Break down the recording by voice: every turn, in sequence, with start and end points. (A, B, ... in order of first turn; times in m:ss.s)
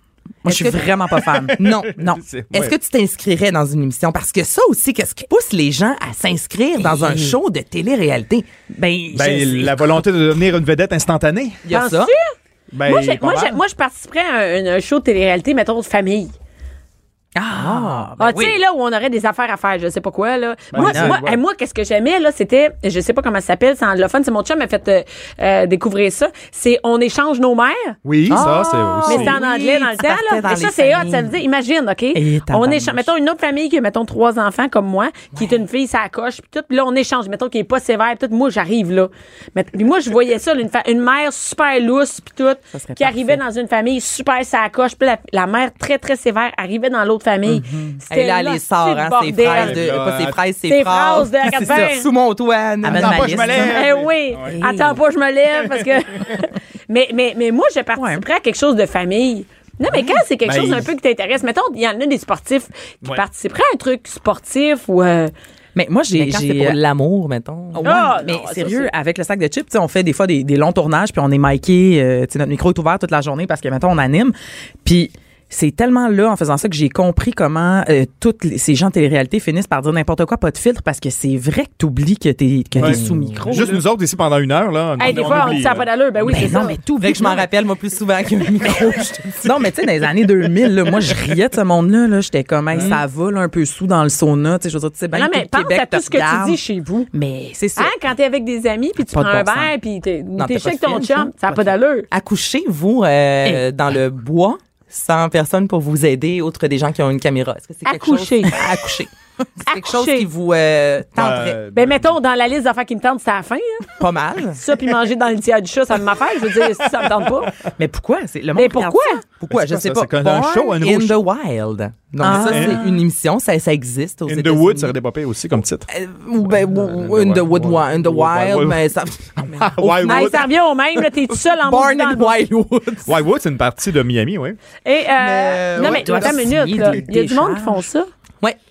0:00.4-0:00.9 A
0:00.4-0:02.2 B
0:01.2-0:02.8 C
0:01.6-0:08.5 A
0:06.8-0:07.4 B
0:08.7-0:10.0 B
0:09.1-0:11.6 C
0:11.6-0:12.1 A
0:11.7-0:16.3 D
0:12.7-0:13.6 C
0:17.4-0:18.6 B
0:17.6-0:18.1 A
0:18.2-0:28.0 D
0:20.7-0:21.4 C
0:20.8-0:21.2 B
0:28.0-0:29.4 C
0:28.3-0:28.7 B
0:28.3-0:31.3 A
0:28.6-0:49.8 D
0:32.1-0:33.1 B
0:42.7-0:43.4 B
0:47.5-0:48.0 B
0:48.1-0:53.6 A
0:49.4-0:50.4 C
0:50.7-0:52.1 D
0:51.6-0:51.9 B
0:52.8-0:53.8 B
0:52.9-0:54.6 C
0:53.5-1:05.3 D
0:54.4-0:55.0 B
0:58.0-0:58.2 B
1:00.4-1:00.9 C
1:05.8-1:06.8 B
1:06.1-1:08.2 A
1:07.7-1:23.8 B
1:07.8-1:08.9 D
1:22.8-1:23.5 A
1:22.8-1:25.9 C
1:25.0-1:26.8 D
1:25.1-1:25.6 B
1:26.2-1:27.5 B
1:27.0-1:29.6 A
1:29.4-1:36.6 B
1:32.7-1:33.0 A
1:35.1-1:37.1 D
1:37.1-1:37.9 B
1:37.8-1:42.1 D
1:39.0-1:39.7 B
1:40.4-1:41.6 A
1:42.1-1:51.6 A
1:47.8-1:48.6 D
1:49.7-1:50.3 D
1:51.2-1:52.1 C
1:51.7-1:53.9 D
1:54.0-1:54.6 A
1:54.6-1:57.5 D
1:57.8-1:59.2 B
1:58.6-1:59.2 D
1:59.4-2:04.9 A
1:59.5-2:01.2 C
2:02.2-2:03.0 B
2:02.3-2:02.8 C
2:04.3-2:05.9 C
2:05.9-2:10.5 A
2:06.5-2:08.8 C
2:09.4-2:10.5 C
2:10.0-2:12.4 D
2:11.3-2:13.2 A
2:13.0-2:14.6 C
2:14.8-2:18.1 D
2:15.2-2:17.0 A
2:15.8-2:17.9 B